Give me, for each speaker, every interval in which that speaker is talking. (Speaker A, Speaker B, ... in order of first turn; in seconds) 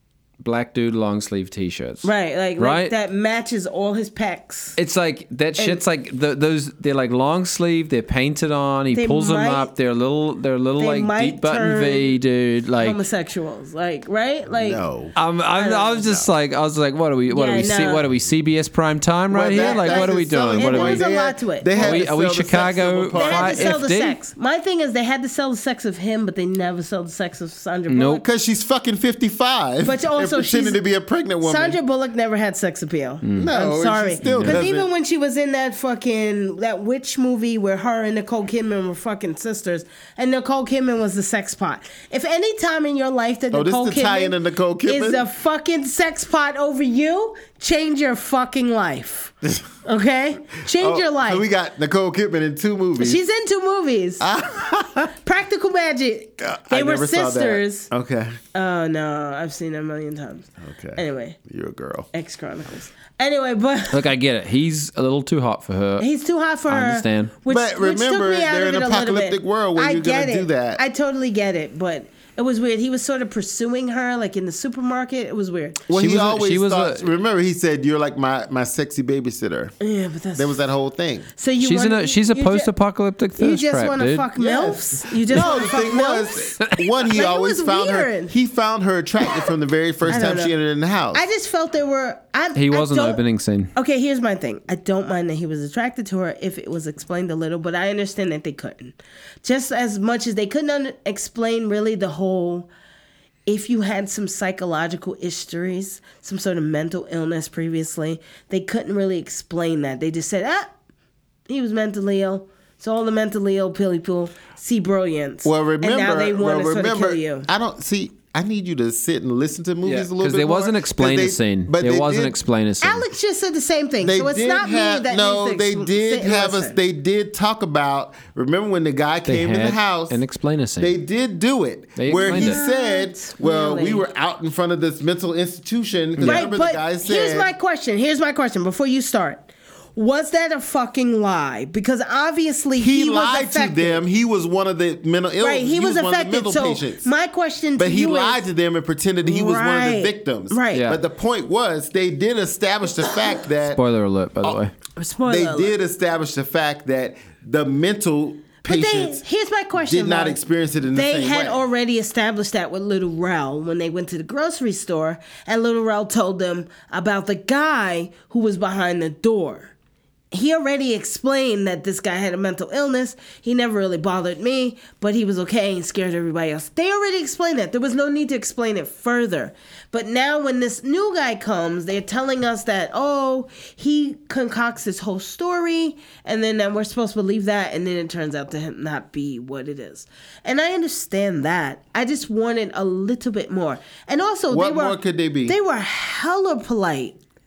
Speaker A: 0.4-2.9, 4.8-13.0, 15.2-21.0, 21.8-24.2, 27.9-28.2, 33.2-33.5, 34.2-34.6, 63.9-66.1, 66.7-67.3, 75.9-77.1, 81.6-84.3, 86.7-86.9, 92.5-93.7, 119.8-123.1, 129.3-130.9, 132.0-132.6, 136.2-136.5, 150.7-151.0, 153.7-154.7
Speaker B: 2.0-4.8, 5.6-5.8, 8.9-9.7, 10.8-12.1, 12.8-14.8, 15.6-16.1, 17.3-18.1, 19.5-22.0, 23.1-28.2, 29.8-30.8, 31.4-51.4, 53.0-54.3, 55.2-57.9, 58.5-61.4, 62.1-64.1, 66.0-75.8, 79.8-80.6, 81.4-82.7, 83.4-88.3, 90.1-90.5, 91.1-93.2, 93.8-102.7, 103.5-110.7, 111.5-117.5, 122.8-126.8, 132.2-134.1, 136.2-144.0, 145.4-148.4, 149.2-150.9, 155.0-155.8, 158.6-160.4, 160.9-169.7, 170.3-197.2
Speaker C: 14.5-15.1, 19.3-23.8, 28.2-31.8, 33.4-34.9, 43.5-45.3, 50.7-53.2, 54.2-55.1, 56.4-58.4, 60.6-62.1, 67.5-70.8, 75.9-79.7, 80.3-81.3, 84.4-91.2, 115.4-122.4, 124.0-130.2, 130.8-137.5, 142.8-147.1, 147.8-153.8, 155.3-159.2, 159.8-161.6, 194.5-195.6